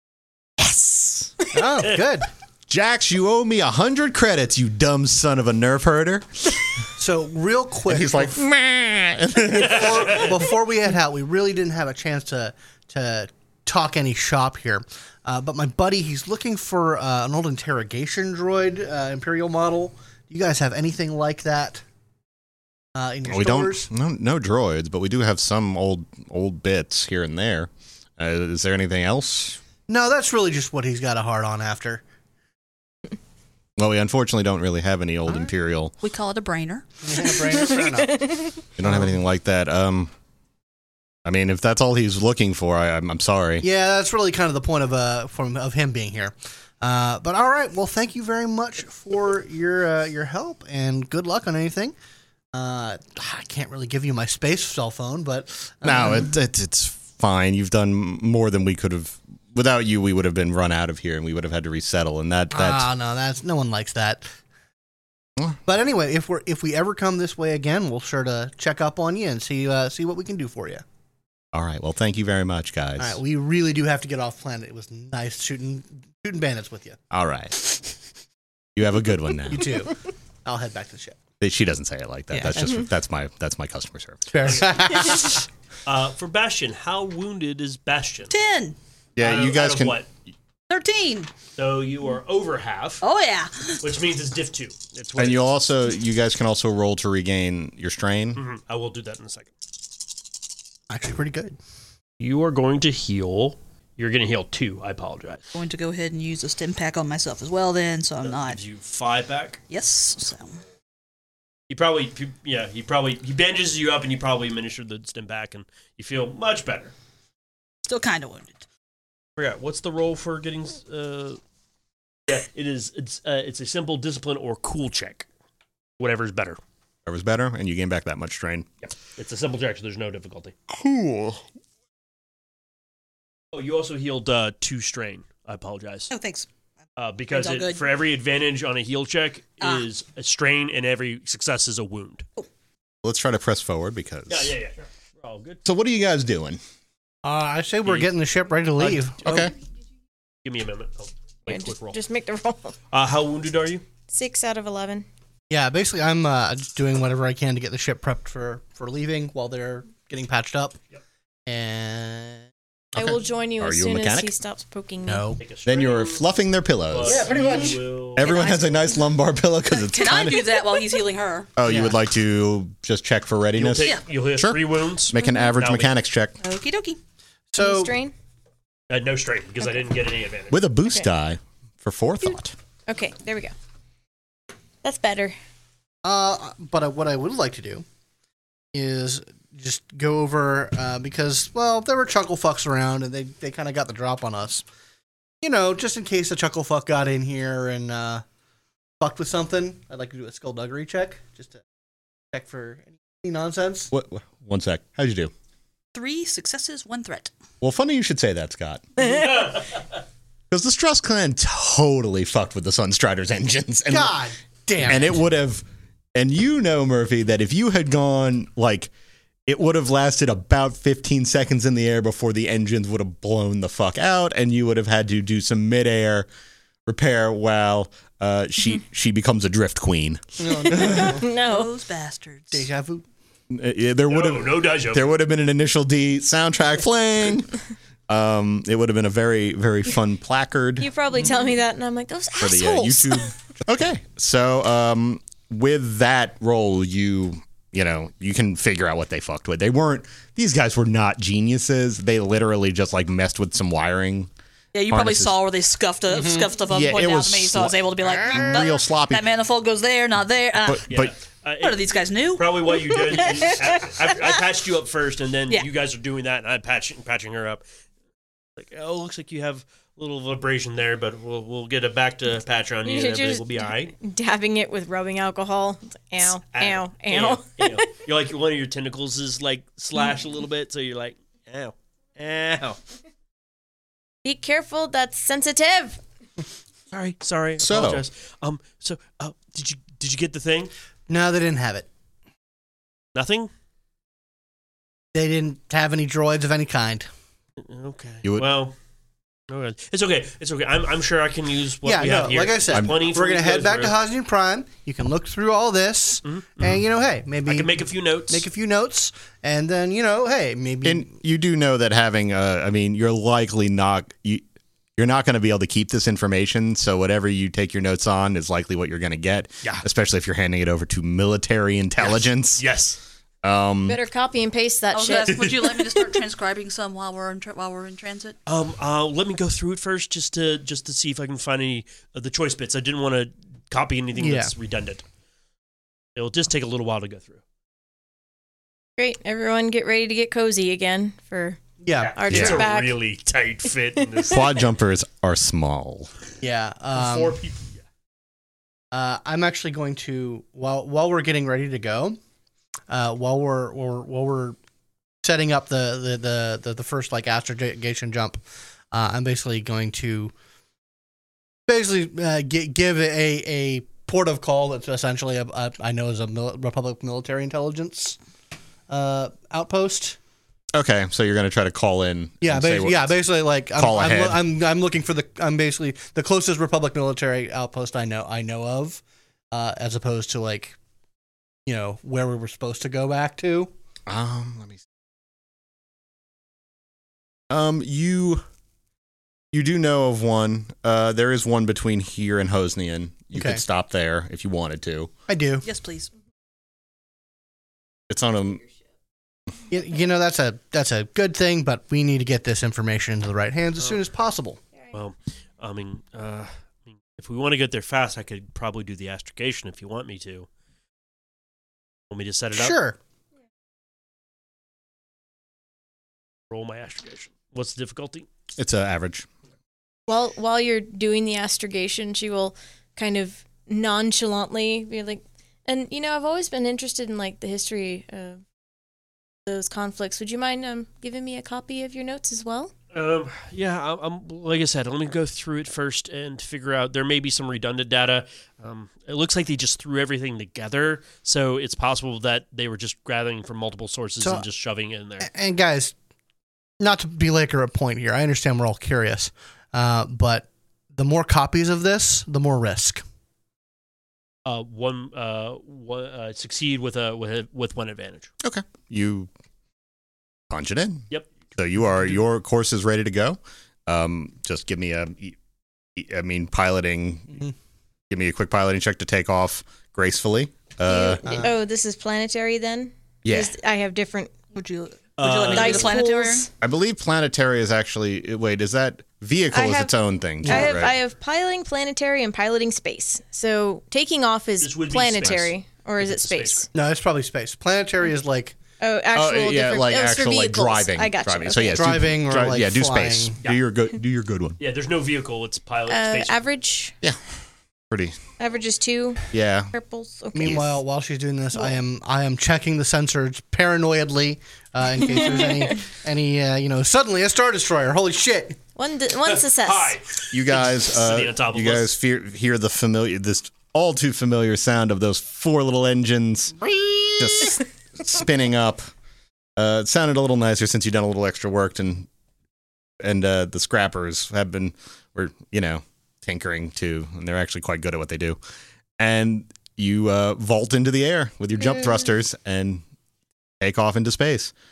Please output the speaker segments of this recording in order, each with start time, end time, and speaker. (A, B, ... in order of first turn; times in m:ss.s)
0:00.7-0:01.3 A
0:01.5-0:02.3 B
0:02.7-0:06.7 A
0:07.0-0:08.4 B
0:07.9-0:10.3 A
0:09.4-0:21.8 B
0:09.7-0:10.3 C
0:22.9-0:23.9 B
0:23.3-0:29.6 A
0:29.9-0:32.0 B
0:33.8-0:35.9 A
0:36.0-0:36.9 D
0:37.0-0:38.3 B
0:37.7-0:38.6 E
0:38.8-0:40.1 A
0:41.2-0:43.6 A
0:43.6-0:51.9 B
0:52.5-0:56.3 B
0:55.8-1:02.9 A
1:02.5-1:04.3 B
1:05.6-1:10.8 B
1:11.5-1:13.2 A
1:13.0-1:17.0 B
1:17.1-1:17.8 A
1:18.8-1:19.7 A
1:19.5-1:21.2 B
1:21.4-1:24.6 A
1:22.3-1:22.6 B
1:24.3-1:25.4 B
1:25.8-1:28.3 C
1:28.3-1:28.8 D
1:29.2-1:30.0 A
1:29.2-1:30.1 C
1:30.7-1:31.3 D
1:31.6-1:33.0 C
1:33.0-1:33.8 D
1:33.8-1:35.5 C
1:35.2-1:38.4 A
1:38.4-1:39.5 C
1:40.9-1:41.6 B
1:42.2-1:45.4 C
1:45.5-1:48.6 D
1:48.2-1:49.6 C
1:49.7-1:50.6 D
1:51.7-1:56.9 C
1:57.8-1:58.6 D
1:59.4-2:01.4 C
2:02.3-2:05.3 C
2:06.0-2:06.6 C
2:07.0-2:08.7 A
2:09.2-2:10.5 C
2:10.7-2:11.4 A
2:13.5-2:16.1 C
2:16.1-2:16.5 D
2:17.0-2:22.2 C
2:17.3-2:17.8 D
2:19.6-2:19.8 D
2:23.0-2:24.5 A
2:24.3-2:25.6 C
2:25.6-2:26.6 A
2:27.2-2:29.5 B
2:27.8-2:28.1 C
2:28.8-2:29.5 C
2:29.2-2:29.5 A
2:30.4-2:32.0 C
2:31.5-2:32.7 E
2:32.9-2:33.8 C
2:34.1-2:35.0 E
2:35.5-2:40.8 B
2:41.5-2:42.5 B
2:42.9-2:44.3 A
2:42.9-2:45.3 E
2:45.0-2:45.4 B
2:45.4-2:46.3 C
2:45.6-2:47.3 A
2:46.9-2:48.3 C
2:47.0-2:47.8 B
2:48.2-2:50.5 A
2:48.2-2:49.0 D
2:49.7-2:51.9 D
2:51.6-2:56.4 A
2:53.6-2:55.9 C
2:53.8-2:54.0 D
2:55.2-2:55.5 E
2:56.4-2:57.0 D
2:57.5-2:58.0 B
2:57.6-2:58.1 E
2:58.9-3:00.6 C
3:00.5-3:02.5 A
3:02.9-3:03.5 E
3:04.8-3:05.4 E
3:06.0-3:07.8 B
3:08.7-3:14.6 B
3:15.4-3:18.2 B
3:19.0-3:21.6 B
3:22.3-3:23.9 B
3:23.9-3:25.3 A
3:25.9-3:27.3 D
3:27.6-3:29.4 A
3:29.1-3:29.6 C
3:30.5-3:34.2 A
3:33.9-3:35.2 B
3:34.8-3:38.9 A
3:39.5-3:46.3 A
3:46.8-3:51.1 A
3:50.4-3:51.2 B
3:50.8-3:51.7 E
3:51.3-3:52.7 D
3:52.5-3:53.0 B
3:53.5-3:57.5 A
3:54.1-3:55.1 C
3:58.1-4:00.9 A
4:00.8-4:03.3 E
4:02.4-4:14.3 A
4:14.7-4:20.9 D
4:14.9-4:15.4 A
4:16.1-4:16.5 B
4:16.7-4:19.3 A
4:20.6-4:21.1 A
4:20.9-4:27.6 C
4:21.6-4:23.9 D
4:28.6-4:33.9 C
4:32.8-4:37.8 E
4:36.5-4:42.8 C
4:44.2-4:46.0 E
4:46.9-4:50.7 C
4:47.6-4:48.0 A
4:51.1-4:51.9 B
4:53.1-4:53.5 C
4:55.1-4:57.1 B
4:57.6-4:58.7 C
4:59.5-5:03.9 C
5:01.8-5:07.8 B
5:02.7-5:03.0 A
5:06.2-5:06.8 C
5:07.4-5:08.4 C
5:08.3-5:11.1 B
5:10.8-5:14.4 A
5:15.0-5:22.6 A
5:22.0-5:23.0 C
5:23.4-5:24.0 A
5:23.9-5:25.7 E
5:24.9-5:28.4 D
5:28.4-5:35.0 C
5:34.2-5:34.5 B
5:36.2-5:37.4 C
5:39.0-5:41.6 E
5:41.8-5:42.1 B
5:42.0-5:44.4 C
5:42.2-5:43.0 E
5:42.3-5:42.7 A
5:44.2-5:46.1 A
5:46.4-5:47.4 B
5:46.9-5:47.7 C
5:48.9-5:52.2 B
5:52.9-5:54.6 B
5:55.2-5:58.4 B
5:58.9-6:00.3 B
6:01.7-6:08.2 B
6:08.9-6:10.2 B
6:10.7-6:13.1 A
6:12.4-6:20.8 B
6:13.8-6:14.4 A
6:21.6-6:23.7 B
6:24.1-6:24.8 A
6:27.5-6:28.4 A
6:29.5-6:35.1 A
6:33.3-6:33.6 B
6:35.3-6:35.6 B
6:35.6-6:36.1 D
6:38.1-6:38.6 A
6:39.7-6:44.6 B
6:44.9-6:50.5 C
6:52.1-6:52.8 C
6:52.5-6:53.0 B
6:56.5-6:58.3 C
6:58.6-6:59.3 A
7:00.1-7:08.4 E
7:09.4-7:12.7 E
7:12.9-7:25.3 C
7:25.2-7:25.9 B
7:26.8-7:33.0 B
7:34.4-7:38.3 C
7:38.4-7:39.3 A
7:40.5-7:45.4 A
7:45.9-7:47.4 A
7:48.1-7:51.2 A
7:50.9-7:54.3 E
7:51.2-7:51.5 B
7:53.2-7:53.5 A
7:54.5-7:56.5 D
7:55.2-7:56.0 C
7:55.5-7:56.5 E
7:56.6-8:00.9 A
7:59.5-7:59.9 E
8:00.4-8:06.7 E
8:04.6-8:06.7 C
8:06.7-8:08.6 B
8:08.8-8:12.0 E
8:09.1-8:14.6 A
8:11.7-8:13.4 B
8:14.6-8:16.4 C
8:15.9-8:16.9 E
8:17.9-8:18.2 A
8:18.4-8:20.6 E
8:19.3-8:19.7 A
8:20.3-8:28.6 B
8:25.0-8:25.7 E
8:28.8-8:30.0 E
8:29.2-8:31.9 C
8:30.3-8:38.8 A
8:39.6-8:42.1 A
8:43.0-8:48.4 A
8:49.0-8:52.8 A
8:53.6-8:54.5 A